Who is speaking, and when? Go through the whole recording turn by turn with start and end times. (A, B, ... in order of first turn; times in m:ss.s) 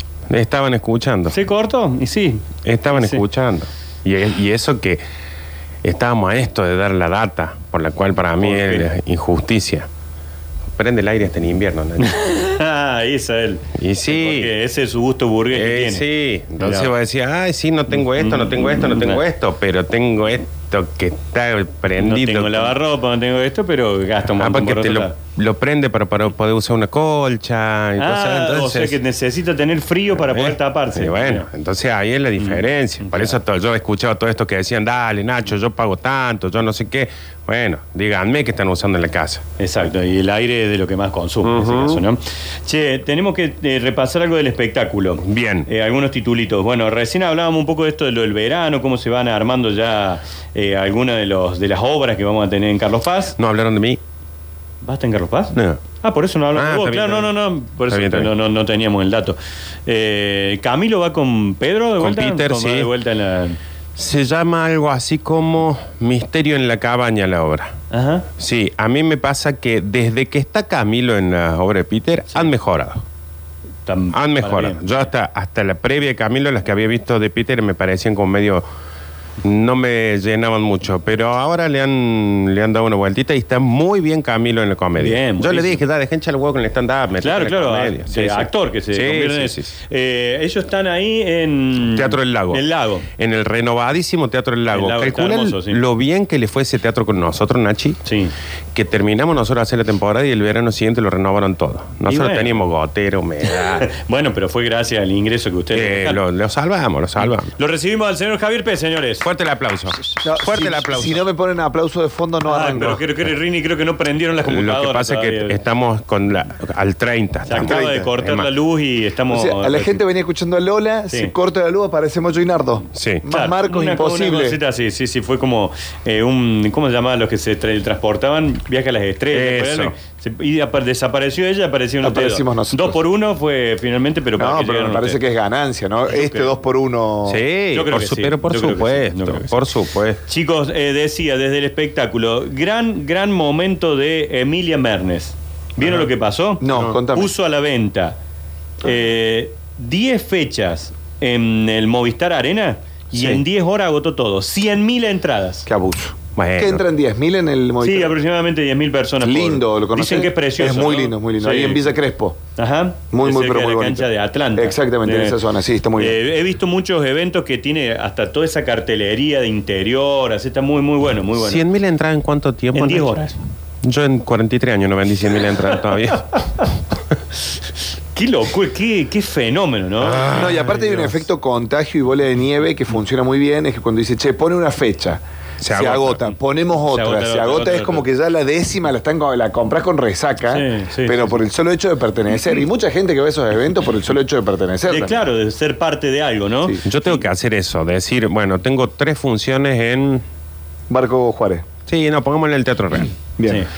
0:00.3-0:01.4 A
0:01.3-0:03.2 B
0:02.6-0:05.0 A
0:05.8-0:09.9 A
0:08.4-0:08.9 B
0:10.7-0:12.2 A
0:12.0-0:16.0 B
0:13.8-0:14.5 A
0:15.5-0:22.8 A
0:16.6-0:16.9 B
0:18.0-0:19.2 B
0:22.0-0:25.2 B
0:24.4-0:29.0 A
0:28.0-0:31.5 B
0:30.2-0:39.4 A
0:32.4-0:33.4 B
0:39.6-0:53.4 B
0:41.4-0:42.0 A
0:45.2-0:45.7 A
0:53.4-0:54.0 A
0:54.8-1:03.6 B
0:55.5-0:55.8 A
0:56.6-0:57.3 A
0:57.9-0:58.3 A
1:02.0-1:02.9 A
1:04.0-1:07.7 A
1:07.9-1:08.3 B
1:08.4-1:13.0 A
1:13.9-1:14.8 B
1:14.1-1:18.6 A
1:19.4-1:29.7 A
1:25.0-1:25.8 B
1:27.2-1:33.1 B
1:32.0-1:32.6 A
1:33.2-1:38.0 A
1:34.7-1:35.8 B
1:38.0-1:38.3 B
1:38.7-1:43.9 A
1:42.1-1:42.6 B
1:43.4-1:46.2 B
1:45.7-1:47.5 A
1:47.5-1:49.3 B
1:49.2-1:51.2 A
1:50.2-1:53.0 C
1:52.5-1:55.6 B
1:52.7-1:53.0 A
1:54.4-1:58.5 A
1:57.5-2:00.0 B
1:57.6-1:58.1 C
1:59.3-2:04.6 C
2:03.0-2:03.2 A
2:03.3-2:15.2 B
2:09.3-2:09.9 A
2:12.0-2:13.0 C
2:14.4-2:17.4 C
2:16.1-2:16.5 B
2:17.3-2:20.2 A
2:17.7-2:19.6 B
2:20.3-2:28.2 B
2:26.6-2:27.3 C
2:28.8-2:35.7 B
2:33.1-2:33.4 A
2:35.7-2:38.2 C
2:36.4-2:36.8 A
2:37.8-2:41.9 B
2:39.2-2:42.4 C
2:42.6-2:45.4 B
2:43.1-2:46.2 C
2:46.0-2:51.6 B
2:51.4-2:53.2 A
2:52.7-2:53.4 B
2:53.8-2:56.7 A
2:56.3-2:56.7 B
2:58.2-3:01.1 B
3:00.0-3:00.6 A
3:00.3-3:15.2 C
3:05.6-3:06.3 A
3:06.9-3:08.0 B
3:10.5-3:11.4 B
3:14.9-3:16.8 B
3:16.8-3:20.2 A
3:20.9-3:21.7 C
3:21.9-3:23.1 A
3:23.4-3:23.6 C